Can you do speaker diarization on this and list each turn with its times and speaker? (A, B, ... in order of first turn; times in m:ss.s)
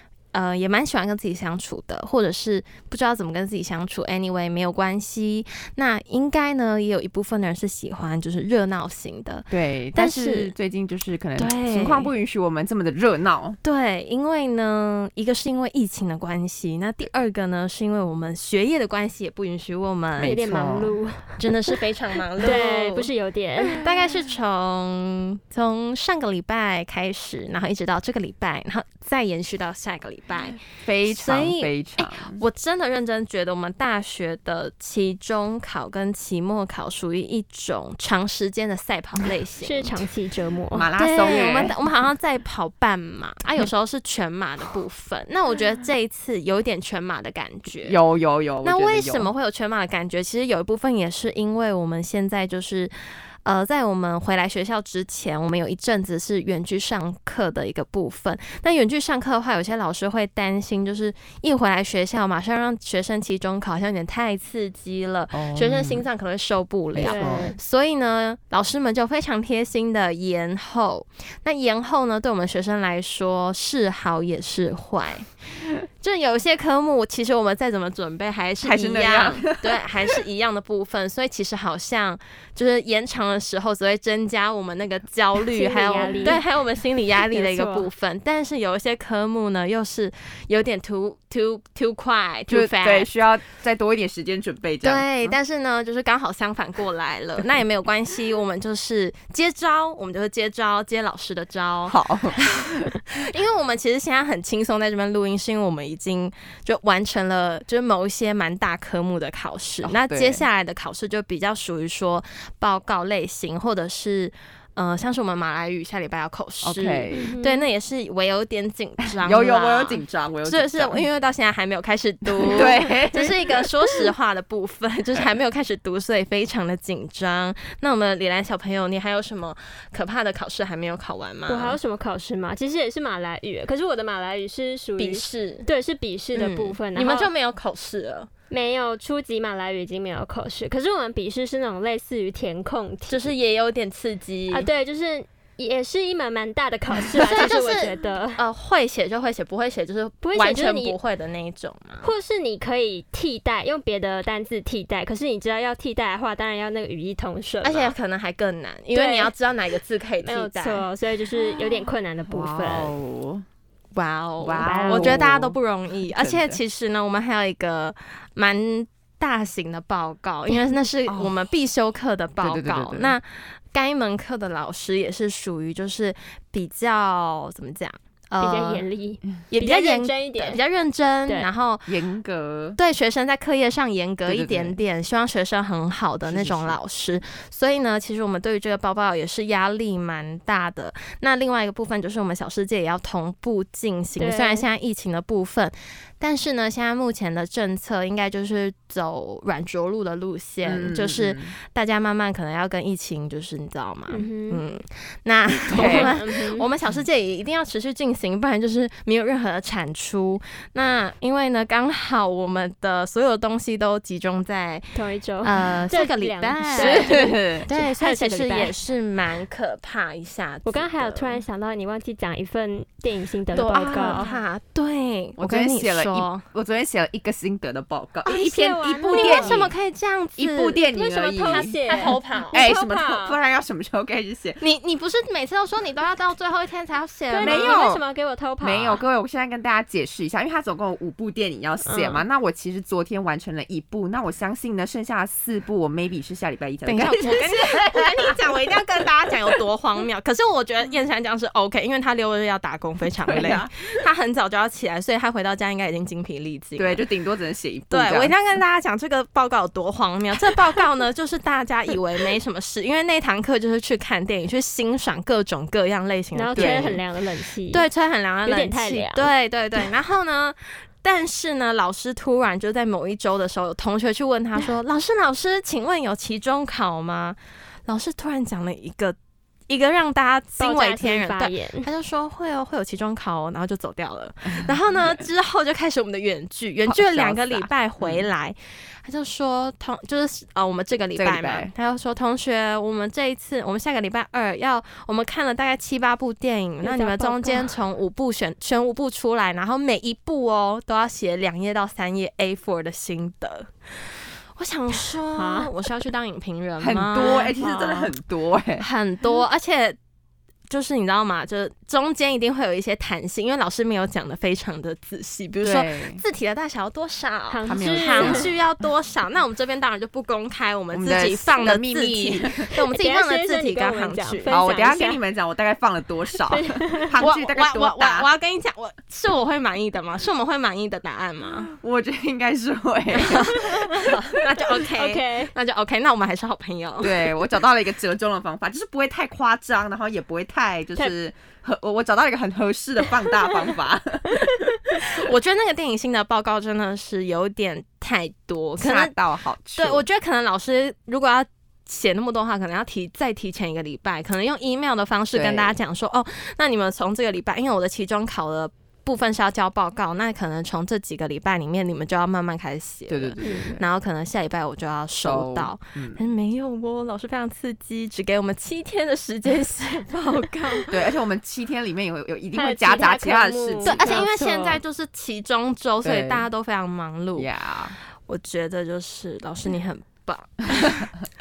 0:00.3-0:10.5 A
0:09.5-0:13.6 B
0:11.4-0:12.1 A
0:13.6-0:20.4 A
0:20.2-0:21.0 B
0:20.2-0:21.8 C
0:21.4-0:23.1 A
0:22.4-0:23.8 C
0:23.7-0:40.0 A
0:30.8-0:32.4 B
0:39.6-0:40.9 C
0:40.7-0:41.8 B
0:41.0-0:48.0 A
0:47.8-0:49.3 B
0:48.6-0:52.9 A
0:53.4-1:15.3 A
1:05.3-1:06.0 B
1:06.9-1:07.5 B
1:07.0-1:07.5 C
1:16.0-1:33.1 A
1:18.6-1:19.8 B
1:25.5-1:26.4 C
1:27.4-1:27.8 C
1:32.5-1:35.4 B
1:34.8-2:11.8 A
1:41.9-1:42.9 B
1:49.8-1:50.4 B
1:56.6-1:57.3 B
1:57.1-1:57.7 C
1:59.2-2:01.0 B
2:02.4-2:03.7 B
2:11.5-2:17.3 C
2:15.0-2:15.7 A
2:16.3-2:18.3 A
2:18.5-2:23.3 C
2:23.1-2:24.7 A
2:24.5-2:28.4 C
2:27.2-2:32.1 A
2:30.2-2:31.0 C
2:32.0-2:37.9 C
2:37.6-2:40.9 A
2:38.9-2:39.3 C
2:40.2-2:42.9 C
2:42.2-2:43.4 B
2:43.9-2:58.8 A
2:44.4-2:46.6 B
2:44.6-2:45.3 C
2:51.1-2:51.3 B
2:52.4-2:53.2 B
2:58.4-3:00.6 C
2:59.5-3:01.9 A
3:01.9-3:02.8 B
3:02.8-3:41.4 A
3:04.2-3:04.8 B
3:06.2-3:06.8 B
3:14.2-3:14.6 C
3:20.6-3:21.5 B
3:24.1-3:24.6 C
3:25.5-3:26.1 B
3:25.7-3:26.7 C
3:34.9-3:38.8 C
3:36.7-3:37.7 B
3:40.6-3:44.4 C
3:43.5-3:46.4 A
3:44.0-3:44.2 B
3:45.4-3:49.7 B
3:48.3-3:49.7 C
3:48.3-3:50.8 A
3:50.4-3:54.6 B
3:50.9-3:53.4 C
3:51.4-3:52.6 A
3:54.6-3:57.8 A
3:57.3-3:59.0 C
3:57.4-3:58.0 B
3:58.6-4:08.4 B
4:01.8-4:02.2 C
4:06.8-4:17.0 A
4:13.3-4:13.7 B
4:16.8-4:18.3 B
4:17.9-4:27.0 A
4:26.3-4:27.9 C
4:26.6-4:27.0 B
4:27.7-4:39.2 A
4:28.4-4:29.3 C
4:39.7-5:03.7 A
4:40.6-4:41.9 C
4:46.9-4:48.3 B
4:51.1-4:51.7 B
4:56.8-4:57.7 C
5:04.6-5:07.5 A
5:05.4-5:05.7 C
5:06.8-5:08.8 B
5:07.2-5:08.1 C
5:08.8-5:10.0 A
5:10.7-5:24.6 A
5:15.6-5:16.2 B
5:17.5-5:18.5 C
5:17.6-5:18.5 B
5:20.9-5:22.7 B
5:22.7-5:25.2 C
5:24.5-5:28.3 B
5:26.4-5:27.2 C
5:27.2-5:31.7 A
5:31.7-5:33.8 B
5:33.1-5:37.2 A
5:33.6-5:35.5 C
5:37.0-5:45.0 B
5:45.0-5:49.1 A
5:48.8-5:50.0 B
5:49.8-6:11.0 A
5:55.3-5:55.7 B
6:03.1-6:03.8 B
6:03.4-6:03.8 C
6:05.2-6:06.2 B
6:10.9-6:14.3 B
6:12.5-6:14.8 C
6:13.8-6:17.5 A
6:16.0-6:16.5 B
6:17.4-6:18.0 B
6:18.3-6:21.1 A